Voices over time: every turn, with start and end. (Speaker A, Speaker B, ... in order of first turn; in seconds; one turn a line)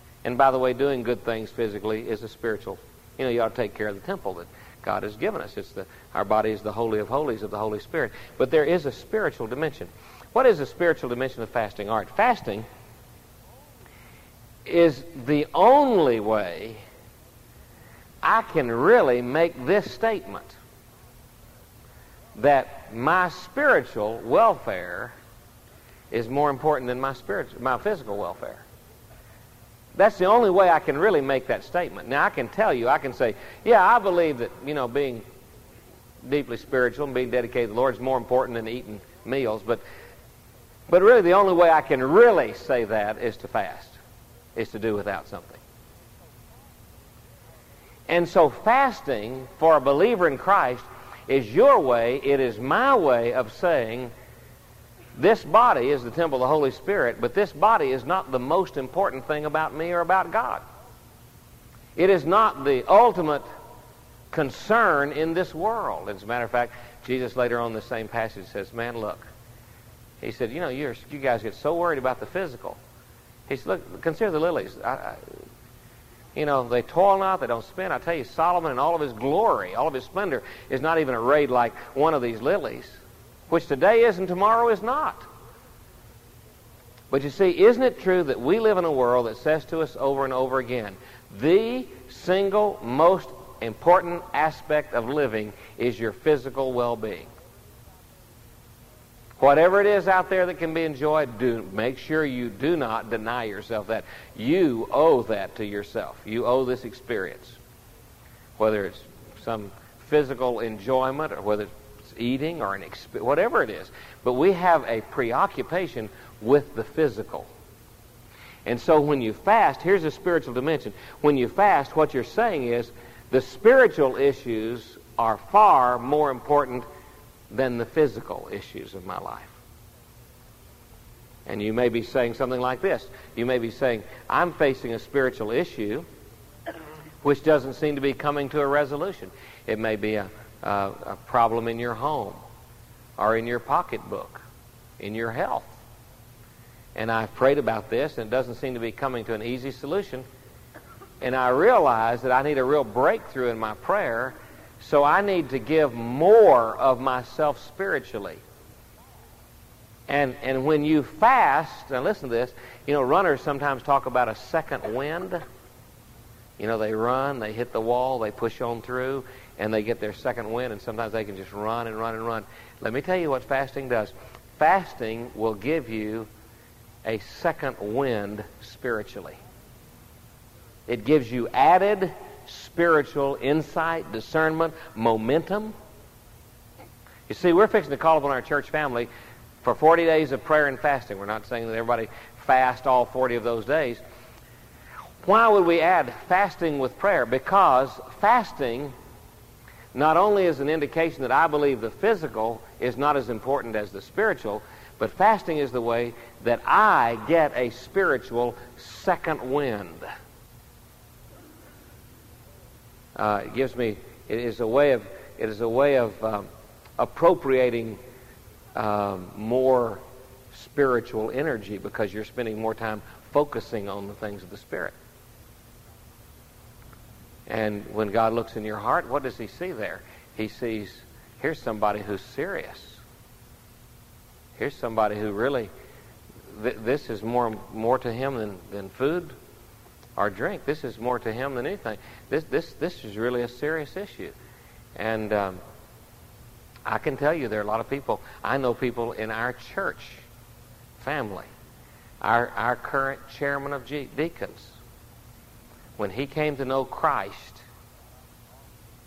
Speaker A: 0.2-12.7
Speaker A: 14.6-16.8
Speaker A: 18.2-20.6
Speaker A: 22.4-25.1
Speaker A: 26.1-28.6
Speaker A: 29.9-35.2
Speaker A: 36.2-39.8
Speaker A: 40.9-44.0
Speaker A: 44.5-45.6
Speaker A: 48.1-54.1
Speaker A: 55.1-60.6
Speaker A: 62.0-63.5
Speaker A: 64.3-69.3
Speaker A: 70.2-72.8
Speaker A: 73.5-75.2
Speaker A: 76.3-85.2
Speaker A: 87.1-97.3
Speaker A: 99.4-107.6
Speaker A: 108.6-117.5
Speaker A: 118.7-126.8
Speaker A: 127.5-129.6
Speaker A: 131.4-136.1
Speaker A: 137.2-142.4
Speaker A: 143.2-144.4
Speaker A: 145.0-145.8
Speaker A: 146.9-150.2
Speaker A: 151.2-158.4
Speaker A: 160.1-165.4
Speaker A: 166.6-176.3
Speaker A: 177.0-179.4
Speaker A: 180.9-185.7
Speaker A: 187.3-189.1
Speaker A: 189.6-194.0
Speaker A: 195.2-198.9
Speaker A: 199.9-210.1
Speaker A: 213.2-218.0
Speaker A: 218.8-224.9
Speaker A: 227.5-233.0
Speaker A: 234.6-235.7
Speaker A: 236.5-239.3
Speaker A: 240.2-244.3
Speaker A: 244.9-245.6
Speaker A: 246.8-250.2
Speaker A: 251.0-251.5
Speaker A: 252.2-254.8
Speaker A: 256.0-257.6